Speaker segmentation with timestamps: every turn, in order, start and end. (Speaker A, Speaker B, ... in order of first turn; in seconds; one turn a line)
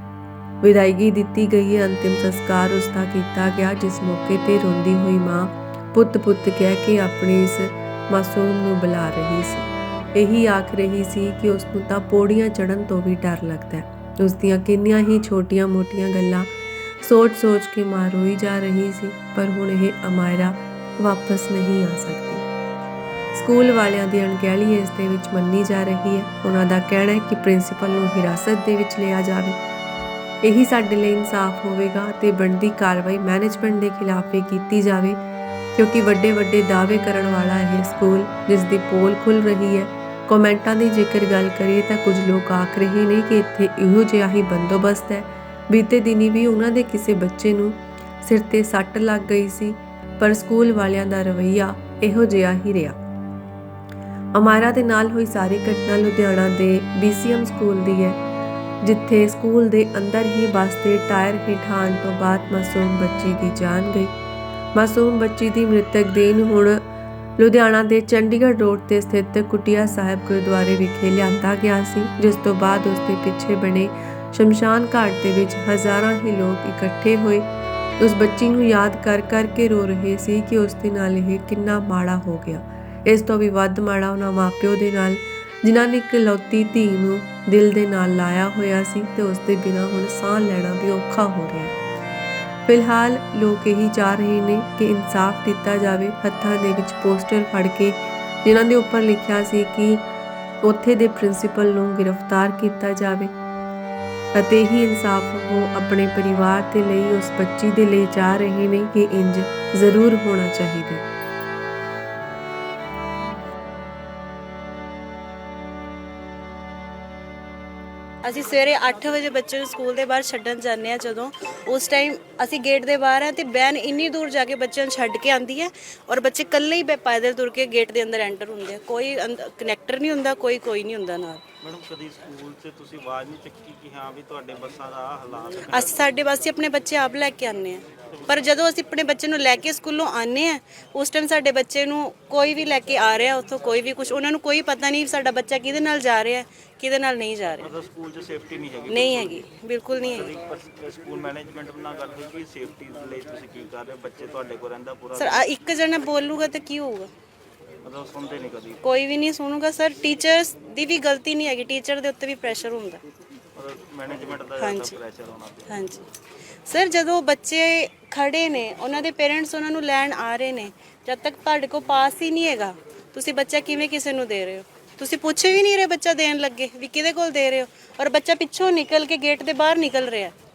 Speaker A: 0.6-16.5
Speaker A: 17.0-22.4
Speaker A: 23.3-29.6
Speaker A: 30.4-35.2
Speaker A: 35.8-53.0
Speaker A: 54.4-58.2
Speaker A: 58.8-64.1
Speaker A: 64.8-66.8
Speaker A: 67.4-77.5
Speaker A: 78.0-91.7
Speaker A: 92.7-100.0
Speaker A: 100.6-103.3
Speaker A: 104.3-111.1
Speaker B: 118.2-131.4
Speaker C: 131.6-136.2
Speaker B: 135.7-147.7
Speaker C: 138.2-138.5
Speaker C: 147.6-149.5
Speaker B: 148.9-150.3
Speaker C: 150.0-155.5
Speaker B: 155.2-157.1
Speaker C: 157.8-158.8
Speaker B: 158.8-163.0
Speaker C: 163.6-165.8
Speaker B: 164.6-165.0
Speaker B: 165.7-166.1
Speaker B: 166.7-180.3